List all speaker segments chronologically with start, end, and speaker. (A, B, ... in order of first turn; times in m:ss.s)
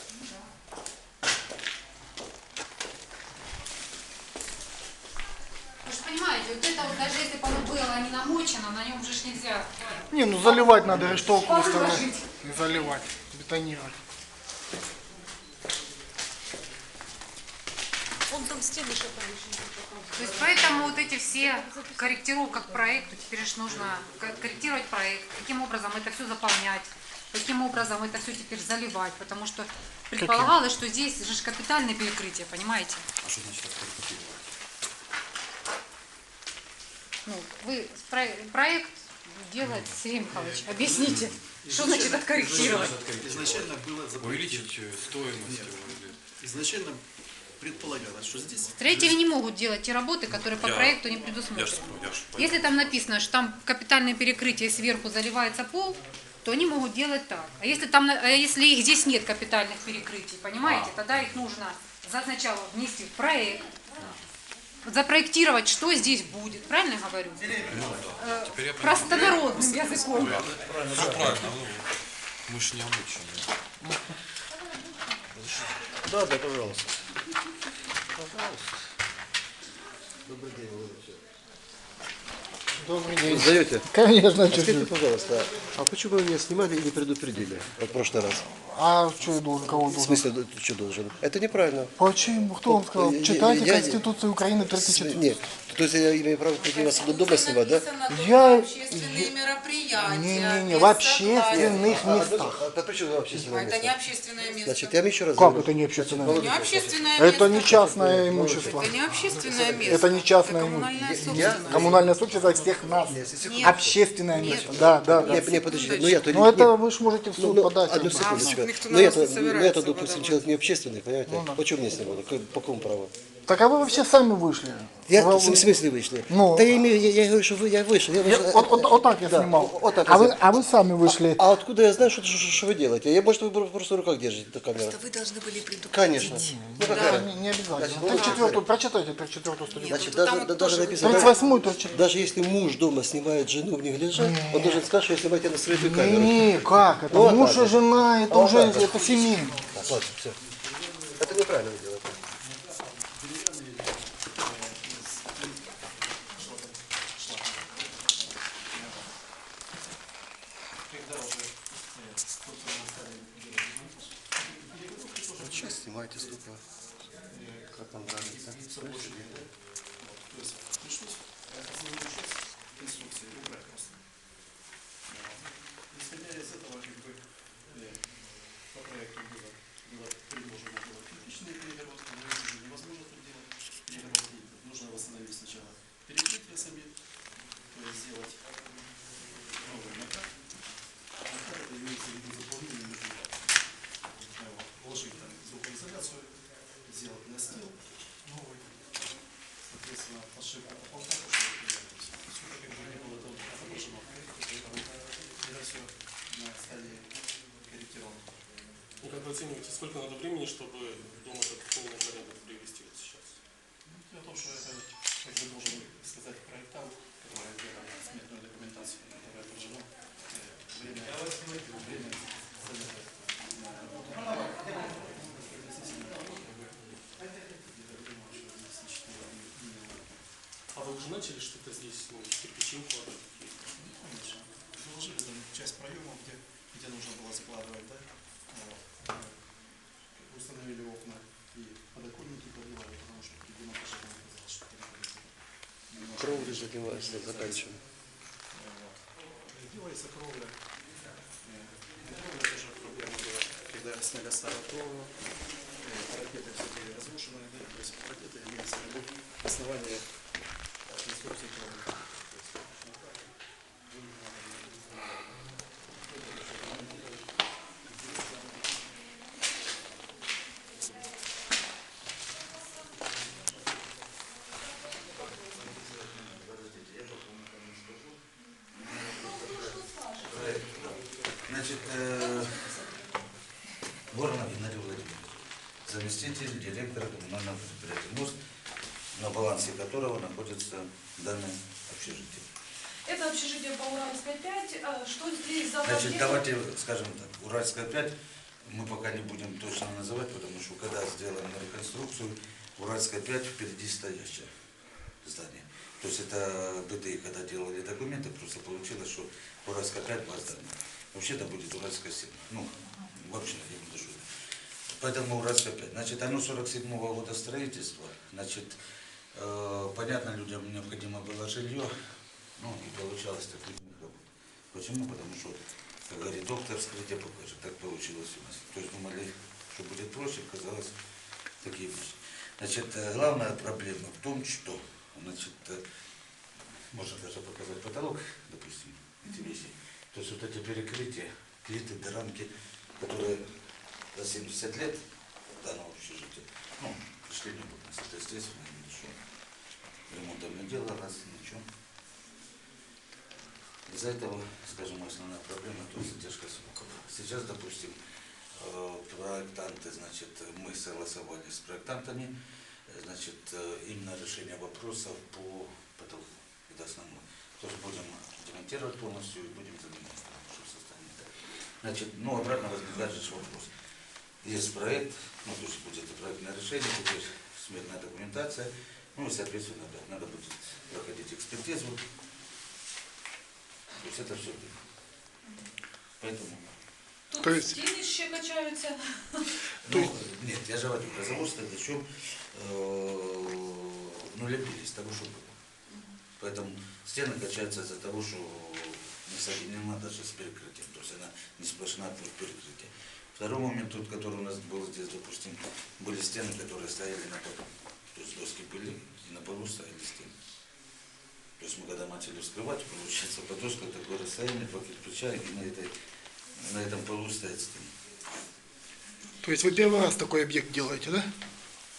0:05.8-0:12.3 A
0:10.1-0:14.0 B
0:18.3-0:23.1 C
0:20.1-0:33.0 A
0:20.4-0:20.9 D
0:30.2-0:30.6 B
0:33.2-0:34.5 E
0:37.2-0:43.0 A
0:39.6-0:40.4 E
0:40.3-0:47.0 F
0:41.0-0:41.4 E
0:42.4-0:46.2 E
0:47.6-0:49.1 F
0:48.8-1:03.8 A
0:50.5-0:53.0 E
1:00.6-1:01.4 E
1:04.8-1:07.5 A
1:07.4-1:08.1 G
1:07.5-1:11.9 E
1:08.1-1:10.5 A
1:10.7-1:11.4 H
1:12.5-1:13.5 E
1:15.9-1:16.9 H
1:18.1-1:18.7 H
1:20.2-1:21.2 H
1:22.8-1:24.9 B
1:23.2-1:23.9 H
1:24.5-1:28.4 H
1:28.4-1:30.3 B
1:29.6-1:32.0 H
1:32.0-1:35.4 B
1:32.6-1:34.0 H
1:34.7-1:37.9 H
1:36.6-1:42.1 D
1:38.1-1:39.3 B
1:40.0-1:42.6 B
1:41.5-1:44.0 H
1:43.3-1:45.0 D
1:44.6-1:50.0 H
1:45.4-1:55.5 B
1:46.3-1:47.9 D
1:48.6-1:52.2 D
1:51.0-1:56.8 H
1:53.4-1:56.4 D
1:56.2-1:58.6 B
1:57.4-2:03.1 H
1:58.1-2:00.5 D
2:01.3-2:01.6 B
2:03.5-2:06.8 B
2:05.1-2:15.0 H
2:08.2-2:11.4 B
2:14.9-2:16.3 D
2:15.9-2:18.6 H
2:16.2-2:20.2 B
2:16.8-2:17.2 D
2:18.1-2:18.6 D
2:19.7-2:22.0 D
2:19.9-2:21.3 H
2:21.0-2:22.0 B
2:21.9-2:30.4 H
2:24.2-2:24.9 B
2:25.7-2:29.6 B
2:29.1-2:29.8 F
2:31.2-2:32.2 H
2:32.4-2:39.2 F
2:40.9-2:46.4 F
2:45.4-2:46.6 H
2:47.2-2:54.1 F
2:47.6-2:49.4 H
2:55.1-3:07.0 F
3:07.7-3:08.4 F
3:09.5-3:10.4 F
3:11.2-3:13.7 F
3:14.4-3:19.1 F
3:19.7-3:28.4 F
3:29.0-3:33.4 I
3:33.8-3:50.1 F
3:50.7-3:53.7 I
3:53.7-3:59.4 F
4:00.0-4:10.8 F
4:06.2-4:07.8 H
4:11.4-4:20.2 F
4:20.8-4:23.0 F
4:23.9-4:25.4 F
4:26.0-4:27.3 F
4:28.0-4:28.6 F
4:35.2-4:38.2 G
4:38.7-4:42.6 G
4:38.8-4:40.6 C
4:42.1-4:43.3 C
4:44.1-4:48.4 G
4:49.1-4:52.5 G
4:53.0-4:56.4 C
4:55.8-5:04.5 G
5:05.2-5:14.3 G
5:14.9-5:18.8 G
5:19.3-5:21.9 G
5:22.6-5:30.9 G
5:31.6-5:35.8 G
5:36.9-5:43.6 G
5:44.1-5:45.0 G
5:45.6-5:49.2 G
5:50.1-5:51.6 G
5:53.9-5:58.0 G
5:58.5-6:02.3 G
6:02.9-6:11.3 G
6:11.8-6:13.7 G
6:14.4-6:22.0 G
6:24.0-6:24.8 G
6:26.2-6:26.6 G
6:27.3-6:29.5 C
6:27.4-6:27.8 B
6:29.8-6:35.6 G
6:36.4-6:50.3 G
6:51.6-6:55.9 G
6:56.5-6:57.9 G
6:59.4-7:01.3 B